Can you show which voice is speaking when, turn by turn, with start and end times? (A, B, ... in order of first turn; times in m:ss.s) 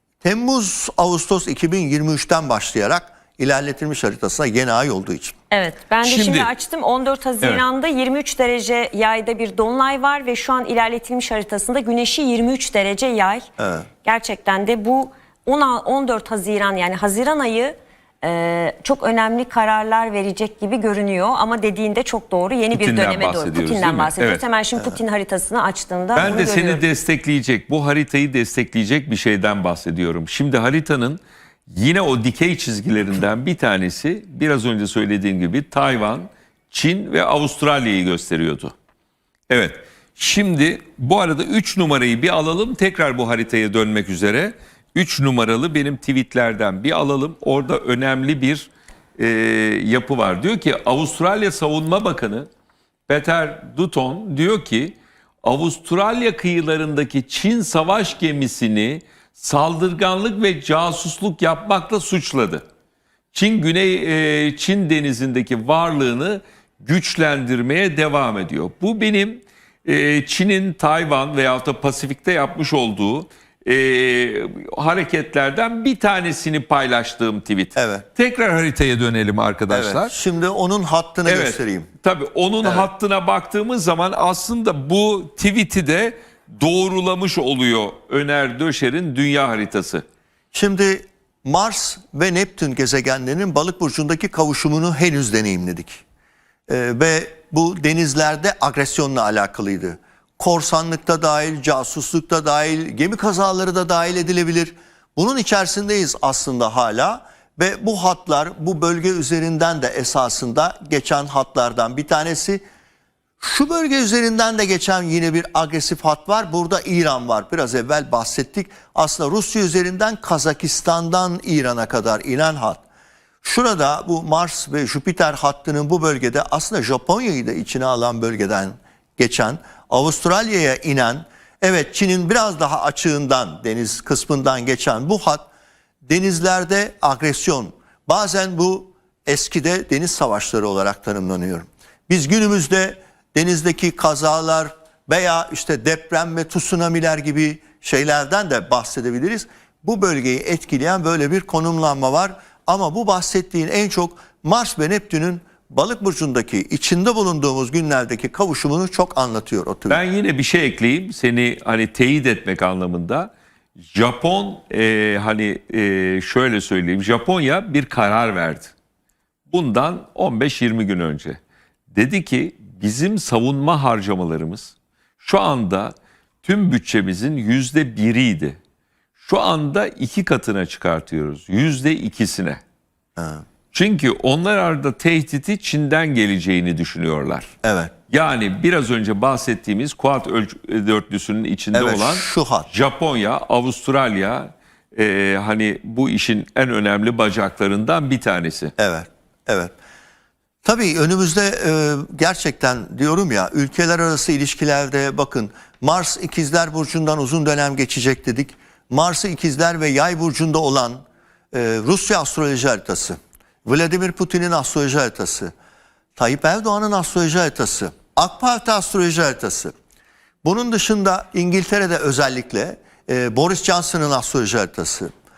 0:00.2-0:05.4 A
0:05.5-0:13.5 B
0:06.0-0:06.5 C
0:13.6-0:13.9 A
0:14.0-0:26.8 B
0:22.7-0:24.4 C
0:26.2-0:38.8 C
0:26.2-0:26.4 A
0:39.5-0:52.5 C
0:53.1-1:02.6 C
1:03.3-1:20.1 C
1:17.8-1:18.0 A
1:19.7-1:21.9 A
1:21.3-1:30.0 C
1:30.5-1:36.0 A
1:36.7-1:52.6 A
1:53.4-2:02.8 A
2:03.4-2:15.5 A
2:16.1-2:40.0 A
2:39.9-2:43.3 C
2:43.9-2:48.7 C
2:49.5-2:51.4 C
2:51.9-2:58.6 C
2:59.2-3:02.6 C
3:03.2-3:03.4 A
3:03.7-3:07.5 C
3:07.6-3:07.9 A
3:08.1-3:18.7 C
3:11.7-3:12.7 A
3:18.8-3:19.7 A
3:20.6-3:35.5 A
3:36.2-3:39.7 A
3:40.4-3:45.1 A